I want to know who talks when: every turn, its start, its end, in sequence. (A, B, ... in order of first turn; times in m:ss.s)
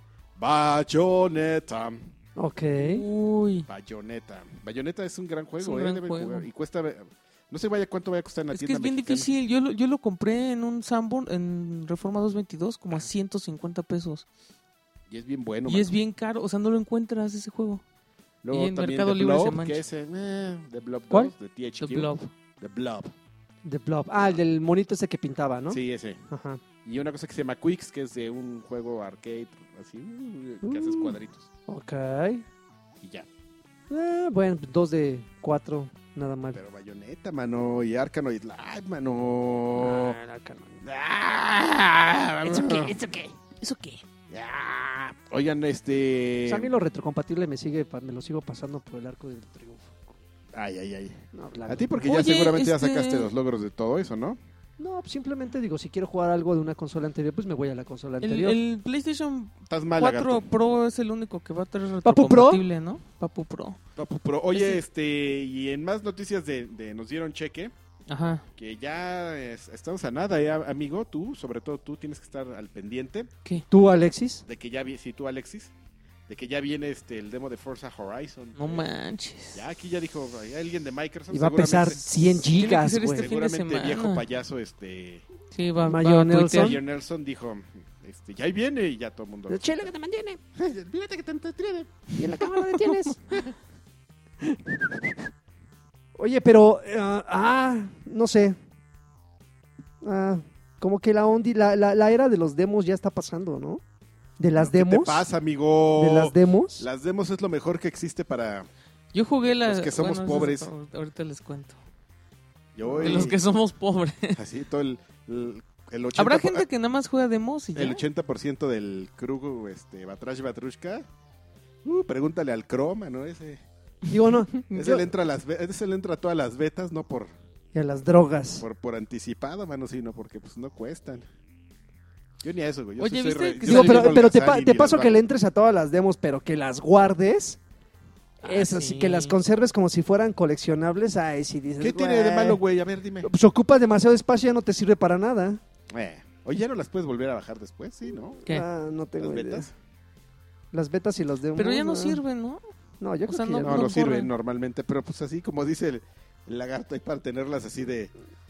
0:00.4-0:02.1 A
0:02.4-0:03.0 B
0:02.8-0:03.7 C
0:03.7-0:09.3 A
0:05.6-0:06.5 C
0:08.5-0:14.3 C
0:15.1-0:16.0 A
0:15.7-0:17.8 C
0:18.4-0:23.1 A
0:18.5-0:19.8 C
0:21.8-0:22.3 C
0:23.6-0:26.6 B
0:25.7-0:26.2 A
0:26.8-0:31.5 A
0:30.6-0:32.4 B
0:33.0-0:33.3 A
0:33.9-0:36.6 B
0:36.5-0:40.2 A
0:39.8-0:40.8 B
0:40.8-0:43.0 A
0:42.5-0:43.3 B
0:42.7-0:42.9 C
0:43.6-0:44.0 C
0:44.3-0:46.8 A
0:46.5-0:50.2 B
0:50.5-0:54.4 A
0:51.3-0:52.2 B
0:52.0-0:53.3 C
0:54.8-0:58.6 B
0:58.2-1:03.8 C
0:59.7-1:00.5 A
1:02.0-1:02.6 B
1:04.0-1:07.7 A
1:04.5-1:04.8 C
1:08.1-1:08.5 C
1:08.6-1:13.3 A
1:13.7-1:14.4 B
1:14.5-1:15.7 A
1:16.3-1:18.9 A
1:18.6-1:19.6 C
1:19.5-1:22.2 A
1:21.3-1:23.3 B
1:22.4-1:24.2 C
1:23.1-1:25.3 A
1:25.5-1:26.8 C
1:25.8-1:26.8 B
1:26.5-1:29.6 A
1:29.5-1:30.4 B
1:30.6-1:32.2 A
1:32.2-1:33.4 B
1:32.4-1:33.4 C
1:34.4-1:35.2 B
1:36.2-1:38.6 B
1:40.0-1:43.8 B
1:44.4-1:45.3 B
1:44.6-1:48.7 A
1:46.0-1:46.9 B
1:49.1-1:51.8 C
1:49.6-1:50.7 A
1:52.8-1:53.4 A
1:52.8-1:53.4 B
1:53.0-1:54.4 C
1:54.3-1:56.7 A
1:56.2-1:58.0 C
1:57.8-2:01.1 A
2:01.8-2:03.6 A
2:04.1-2:05.0 B
2:04.7-2:07.3 A
2:07.7-2:08.6 B
2:08.6-2:11.3 A
2:12.4-2:15.2 A
2:13.0-2:14.4 C
2:13.6-2:17.6 B
2:18.4-2:19.4 C
2:18.4-2:22.6 B
2:21.8-2:23.3 A
2:23.2-2:25.6 B
2:25.9-2:28.4 A
2:28.5-2:29.7 B
2:29.2-2:29.7 A
2:30.7-2:32.2 B
2:31.6-2:32.6 C
2:33.0-2:33.9 B
2:33.3-2:34.3 C
2:33.6-2:38.1 A